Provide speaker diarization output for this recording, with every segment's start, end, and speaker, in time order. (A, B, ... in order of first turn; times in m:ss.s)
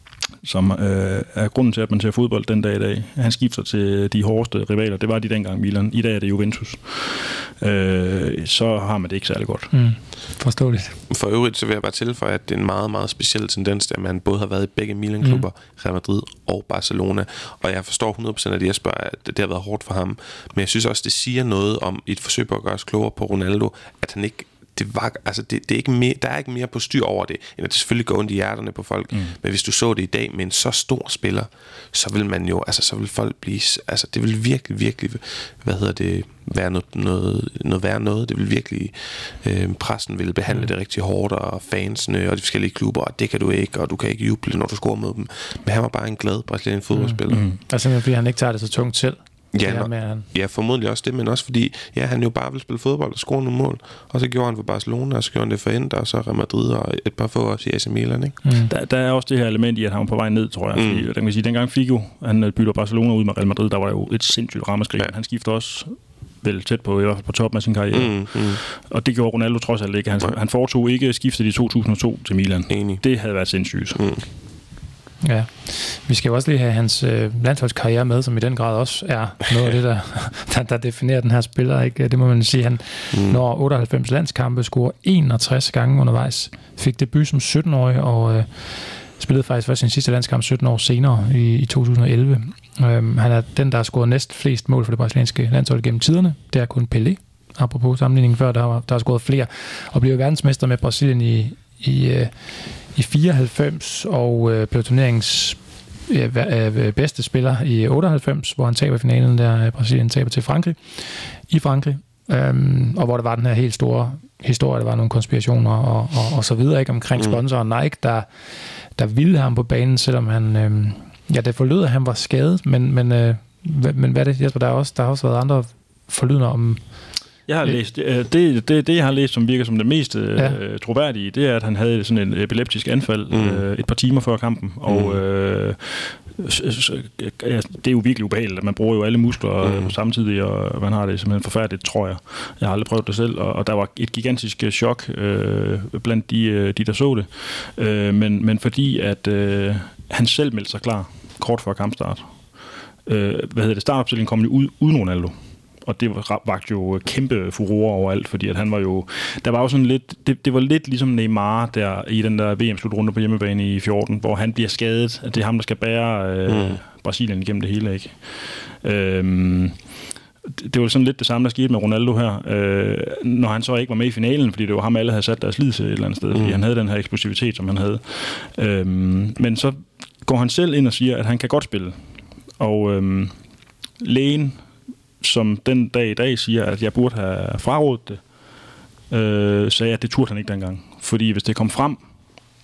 0:00.4-0:09.7 A
0:09.7-0:11.0 B
0:11.1-0:47.5 C
0:29.1-0:29.4 A
0:46.9-0:50.3 B
0:47.3-0:47.6 A
0:49.5-0:58.4 C
0:58.4-0:58.7 B
0:58.7-1:14.0 A
1:00.7-1:01.1 C
1:07.9-1:08.6 C
1:12.7-1:13.0 C
1:14.0-1:14.3 C
1:15.2-1:58.3 B
1:23.1-1:23.4 C
1:58.9-2:07.8 B
2:07.5-2:32.4 A
2:13.3-2:13.6 C
2:14.9-2:15.2 C
2:19.6-2:19.9 C
2:33.1-2:49.8 A
2:46.5-2:46.8 C
2:50.4-3:02.0 A
2:56.3-2:56.6 C
3:02.6-3:03.3 A
3:04.0-3:04.6 A
3:05.2-3:08.2 A
3:09.1-3:12.0 A